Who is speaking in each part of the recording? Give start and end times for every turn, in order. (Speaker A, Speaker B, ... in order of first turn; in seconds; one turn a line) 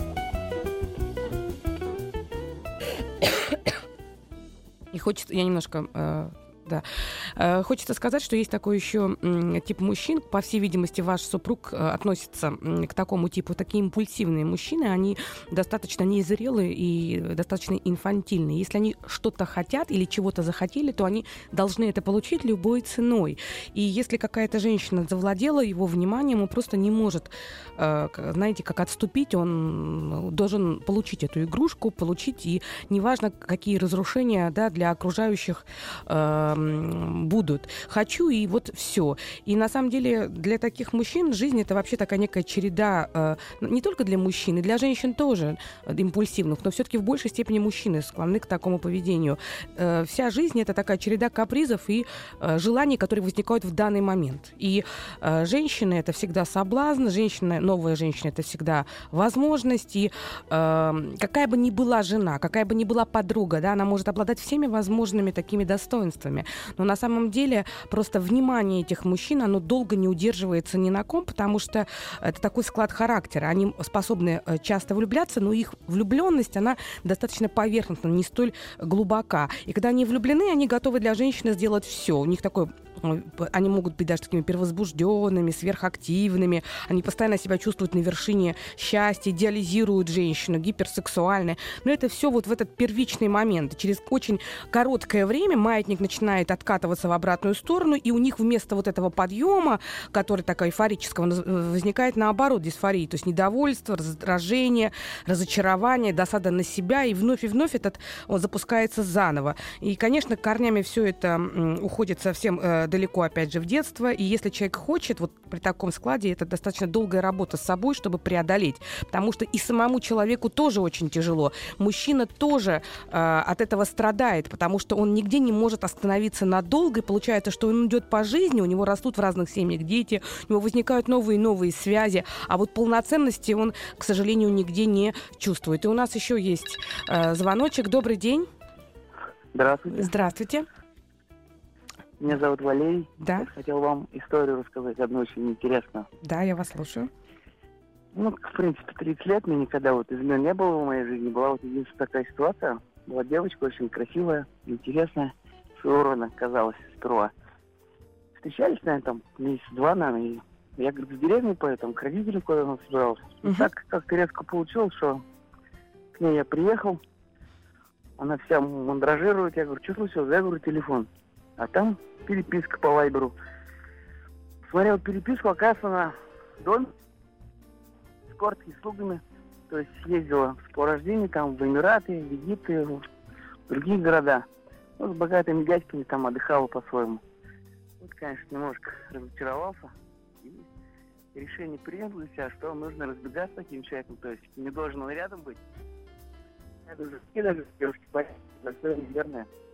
Speaker A: 4.9-138.5
Speaker B: 139.5-140.1
Speaker A: 139.9-140.7
Speaker B: 142.2-146.1
Speaker A: 143.2-143.5
Speaker A: 146.2-147.1
Speaker B: 148.1-157.3
Speaker B: 158.4-165.2
Speaker A: 163.4-163.7
Speaker B: 166.1-167.0
Speaker B: 168.2-173.3
Speaker B: 174.7-176.9
Speaker B: 178.3-183.1
Speaker B: 183.7-184.4
Speaker B: 185.0-187.2
Speaker B: 188.0-190.7
Speaker B: 191.3-195.6
Speaker B: 196.9-199.5